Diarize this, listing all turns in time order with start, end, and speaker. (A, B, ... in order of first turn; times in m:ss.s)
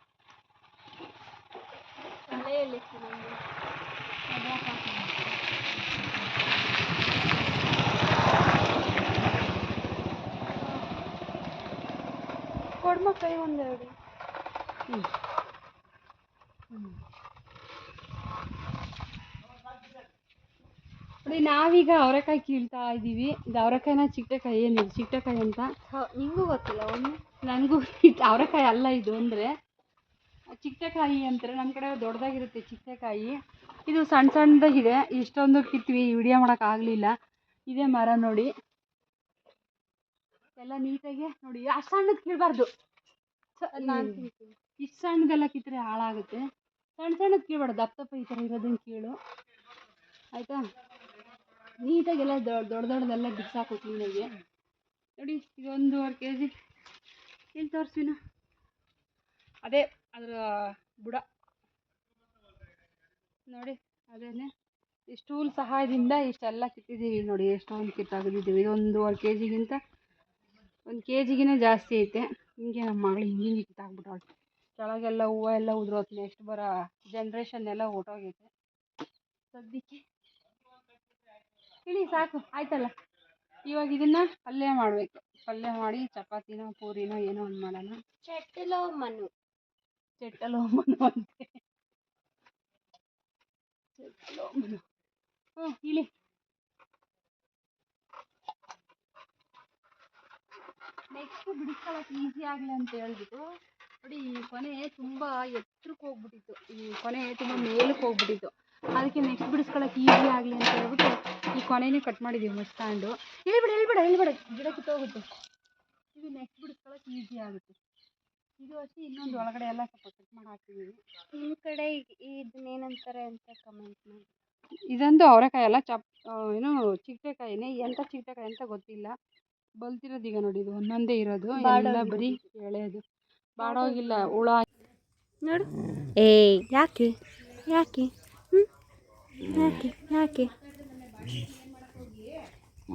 0:02.3-0:03.4 A
0:04.3-0:05.3 B
0:12.8-0:13.9 A
0:21.2-0:25.7 B
0:25.9-0:27.2 A
0:27.4-0:29.5 B
0:30.6-0:33.4 B
0:33.9-0:37.1 B
0:37.7-0:38.5 B
0:40.6-0:42.7 B
0:43.6-0:44.2 B
0:43.8-0:44.6 A
0:44.8-0:46.4 B
0:47.0-0:49.2 B
0:50.3-0:50.6 B
0:51.8-0:54.3 B
0:55.2-0:56.5 B
0:57.5-0:58.2 B
0:59.6-1:01.2 B
1:03.5-1:04.5 B
1:05.1-1:09.8 B
1:10.9-1:14.2 B
1:14.8-1:18.5 B
1:19.5-1:20.0 A
1:21.8-1:22.9 B
1:23.6-1:28.0 B
1:28.2-1:29.3 A
1:30.2-1:31.5 B
1:34.0-1:34.8 B
1:35.6-1:36.1 B
1:41.1-1:43.4 B
1:44.0-1:55.2 B
1:56.1-1:57.7 B
1:58.6-2:01.0 B
2:01.3-2:04.3 A
2:04.9-2:09.1 B
2:09.8-2:13.0 B
2:11.6-2:12.4 A
2:13.6-2:14.6 B
2:13.6-2:14.3 A
2:15.4-2:18.7 A
2:19.5-2:20.5 A